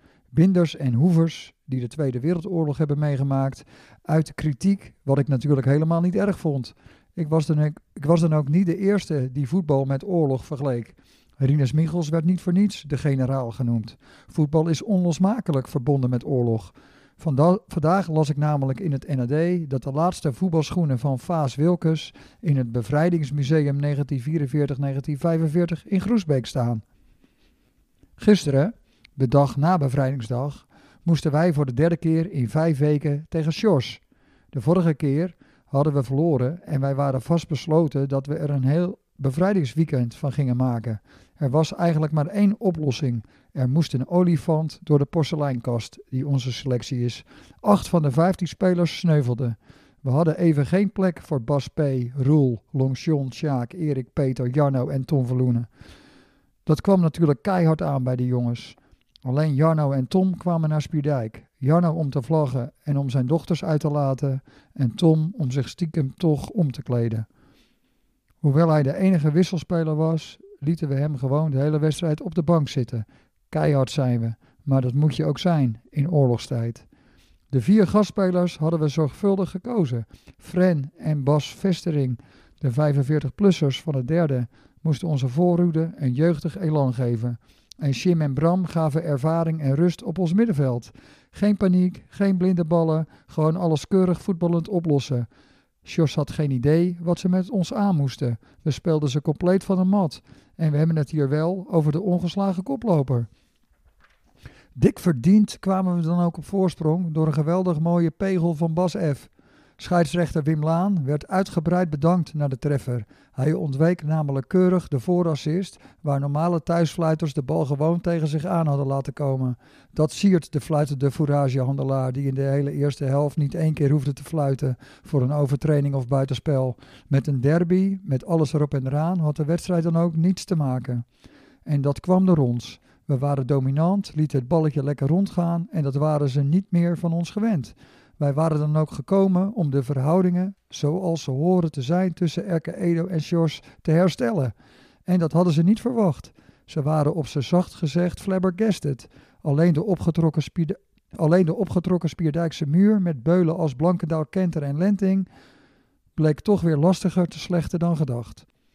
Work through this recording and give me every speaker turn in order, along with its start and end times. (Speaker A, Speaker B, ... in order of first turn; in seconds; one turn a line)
Speaker A: 0.3-26.8
Speaker A: 28.2-34.0
Speaker A: 34.5-55.7
Speaker A: 56.6-67.2
Speaker A: 68.4-76.8
Speaker A: 77.5-95.3
Speaker A: 95.8-103.3
Speaker A: 104.8-131.0
Speaker A: 131.7-144.5
Speaker A: 145.1-155.3
Speaker A: 156.2-158.4